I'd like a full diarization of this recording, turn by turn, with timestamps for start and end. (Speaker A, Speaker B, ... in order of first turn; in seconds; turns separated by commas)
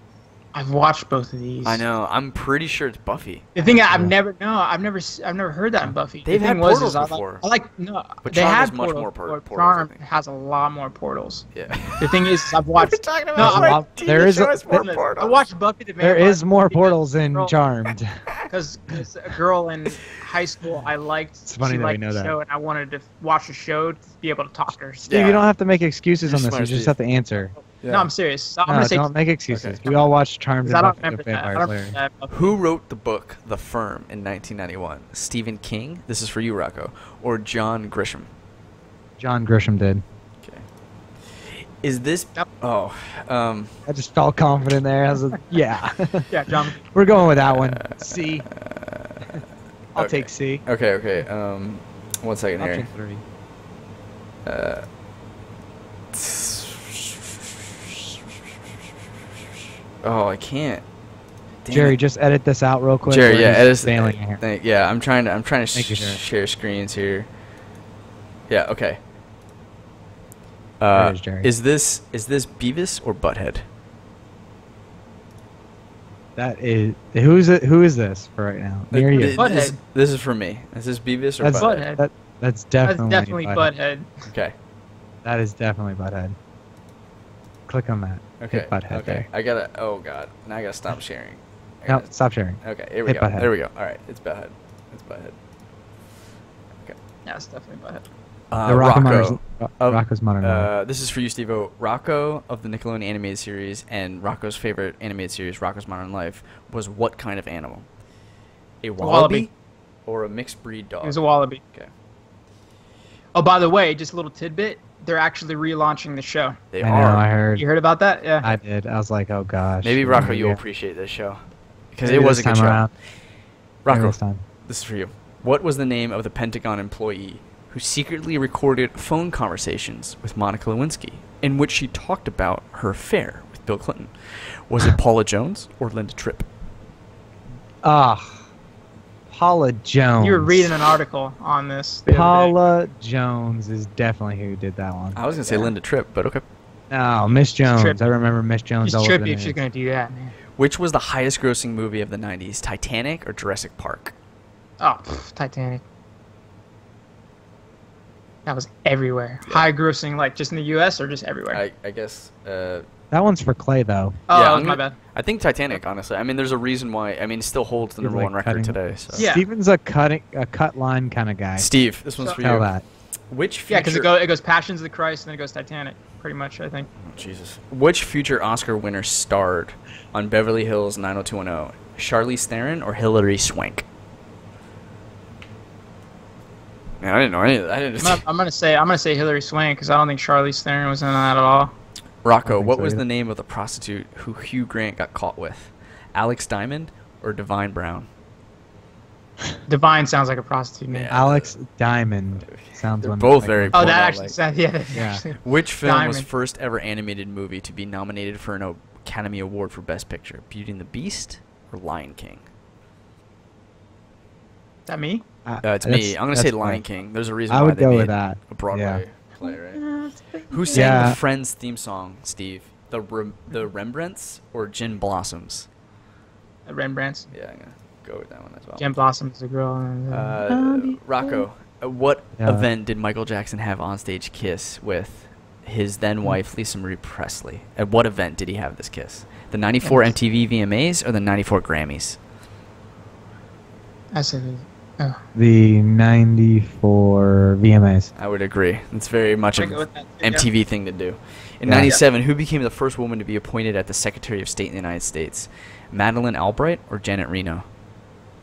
Speaker A: 0.5-1.9, Speaker B: 1.6-3.5, Speaker A: 3.5-11.5, Speaker B: 6.3-7.5, Speaker B: 8.2-10.0, Speaker B: 11.5-15.5, Speaker A: 12.0-13.8, Speaker C: 13.4-14.9, Speaker A: 14.7-17.5, Speaker C: 16.0-18.2, Speaker A: 18.5-25.1, Speaker C: 21.5-22.3, Speaker C: 25.0-27.5, Speaker B: 25.1-25.5, Speaker B: 26.2-26.9, Speaker B: 27.6-28.1, Speaker A: 27.9-29.1, Speaker C: 28.7-32.0, Speaker B: 29.5-29.9, Speaker A: 30.6-32.5, Speaker B: 32.3-38.3, Speaker C: 39.2-40.0, Speaker B: 41.3-43.7, Speaker C: 43.9-46.3, Speaker A: 46.3-46.8, Speaker C: 46.8-48.5, Speaker B: 47.5-49.4, Speaker C: 50.0-50.6, Speaker B: 50.0-52.9, Speaker C: 52.6-53.2, Speaker B: 54.5-54.9, Speaker B: 56.1-58.1, Speaker B: 60.0-60.8, Speaker B: 61.6-62.0, Speaker C: 61.7-64.4, Speaker B: 63.1-67.3, Speaker C: 65.7-66.2, Speaker B: 68.5-69.0, Speaker B: 70.8-73.7, Speaker C: 70.9-71.5, Speaker C: 76.4-79.4, Speaker B: 78.9-81.9, Speaker A: 79.3-79.8, Speaker C: 81.4-83.7, Speaker A: 81.6-82.0, Speaker A: 82.8-84.1, Speaker B: 84.3-84.5, Speaker C: 85.2-86.4, Speaker C: 87.7-89.3, Speaker B: 88.4-92.1, Speaker C: 91.9-93.5, Speaker B: 92.6-95.3, Speaker A: 97.3-98.0, Speaker B: 98.5-107.9, Speaker C: 98.7-100.7, Speaker B: 108.8-109.5, Speaker A: 109.0-109.5, Speaker B: 110.1-111.2, Speaker A: 111.0-111.6, Speaker A: 113.3-116.6, Speaker B: 116.7-117.2, Speaker C: 116.8-117.7, Speaker A: 117.6-118.5, Speaker C: 118.4-120.6, Speaker B: 119.8-121.4, Speaker B: 121.9-122.9, Speaker C: 122.0-122.9, Speaker B: 123.8-136.5, Speaker C: 123.9-124.4, Speaker C: 137.8-138.5, Speaker C: 139.3-140.7, Speaker A: 140.2-142.5, Speaker C: 142.1-145.7, Speaker B: 145.2-146.4, Speaker C: 146.9-149.6, Speaker A: 148.8-150.3, Speaker B: 150.6-154.2, Speaker A: 154.8-155.8, Speaker A: 158.5-161.6, Speaker B: 161.5-162.9, Speaker C: 163.1-164.2, Speaker A: 164.3-165.0, Speaker B: 164.3-169.2, Speaker C: 168.0-171.7, Speaker A: 169.1-169.4, Speaker B: 171.6-172.7, Speaker C: 172.4-172.8, Speaker B: 173.3-174.1, Speaker A: 173.7-176.9, Speaker B: 177.0-183.8, Speaker B: 187.0-188.2, Speaker A: 188.0-191.7, Speaker B: 192.2-198.1, Speaker C: 192.4-193.0, Speaker A: 199.7-201.1, Speaker B: 200.9-201.6, Speaker C: 201.1-203.9, Speaker B: 202.4-204.4, Speaker A: 203.7-206.3, Speaker C: 204.9-205.2, Speaker B: 205.4-212.5, Speaker A: 214.9-215.2, Speaker C: 215.4-216.8, Speaker B: 215.6-219.8, Speaker C: 217.5-219.0, Speaker A: 219.4-221.1, Speaker B: 220.5-225.7, Speaker C: 220.7-221.2, Speaker A: 226.7-227.3, Speaker B: 227.3-229.0, Speaker A: 228.8-231.5, Speaker B: 230.1-242.2, Speaker C: 232.4-232.7, Speaker A: 239.8-240.1, Speaker A: 244.1-245.2, Speaker C: 245.3-248.1, Speaker B: 248.2-257.7, Speaker A: 249.6-250.5, Speaker C: 251.7-252.0